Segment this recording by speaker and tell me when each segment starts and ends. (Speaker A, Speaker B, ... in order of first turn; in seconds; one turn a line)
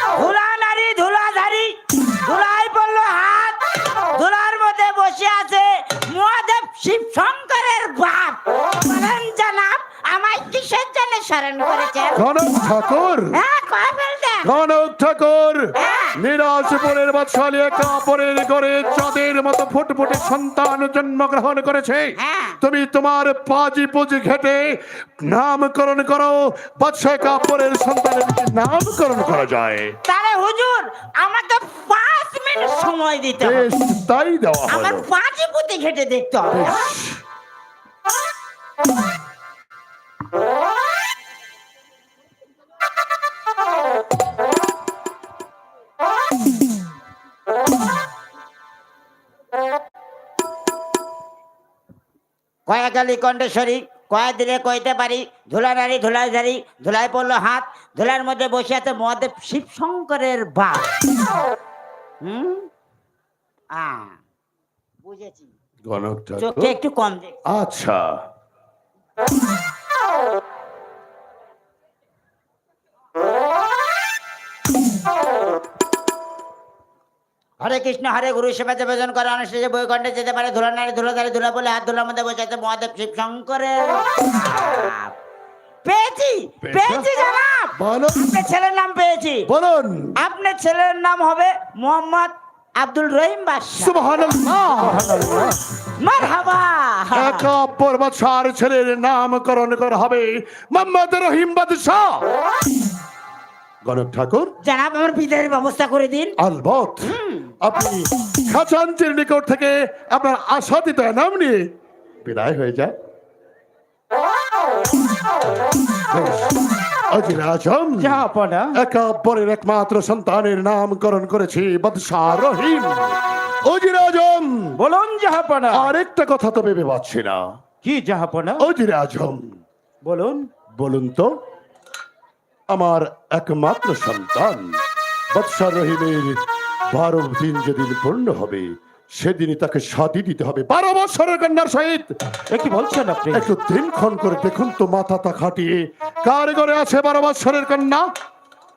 Speaker A: 0.1-12.2
Speaker B: 12.2-13.4
Speaker A: 13.3-14.5
Speaker B: 14.4-30.0
Speaker A: 15.8-16.2
Speaker A: 22.2-22.6
Speaker A: 30.1-33.7
Speaker B: 33.4-35.1
Speaker A: 34.7-36.9
Speaker B: 36.5-37.2
Speaker A: 52.7-60.9
Speaker A: 62.2-62.7
Speaker A: 63.7-64.2
Speaker A: 65.0-65.5
Speaker B: 65.9-66.8
Speaker A: 66.4-67.3
Speaker B: 67.5-68.1
Speaker A: 77.6-85.2
Speaker A: 85.8-89.5
Speaker B: 86.6-87.1
Speaker B: 87.8-88.4
Speaker B: 89.5-90.2
Speaker A: 90.2-94.0
Speaker B: 93.8-95.5
Speaker C: 94.7-95.6
Speaker A: 96.0-97.5
Speaker B: 97.1-102.3
Speaker B: 103.8-104.5
Speaker A: 104.6-106.4
Speaker B: 106.4-111.7
Speaker A: 107.0-107.5
Speaker B: 112.2-113.0
Speaker B: 116.1-116.6
Speaker B: 117.1-118.2
Speaker C: 118.0-118.8
Speaker B: 118.8-124.8
Speaker C: 124.8-125.9
Speaker B: 125.7-127.4
Speaker C: 127.8-128.7
Speaker B: 128.6-129.5
Speaker C: 130.1-130.5
Speaker B: 130.7-131.4
Speaker B: 132.7-134.8
Speaker B: 135.3-136.4
Speaker B: 136.9-142.1
Speaker C: 142.5-143.5
Speaker B: 143.3-148.1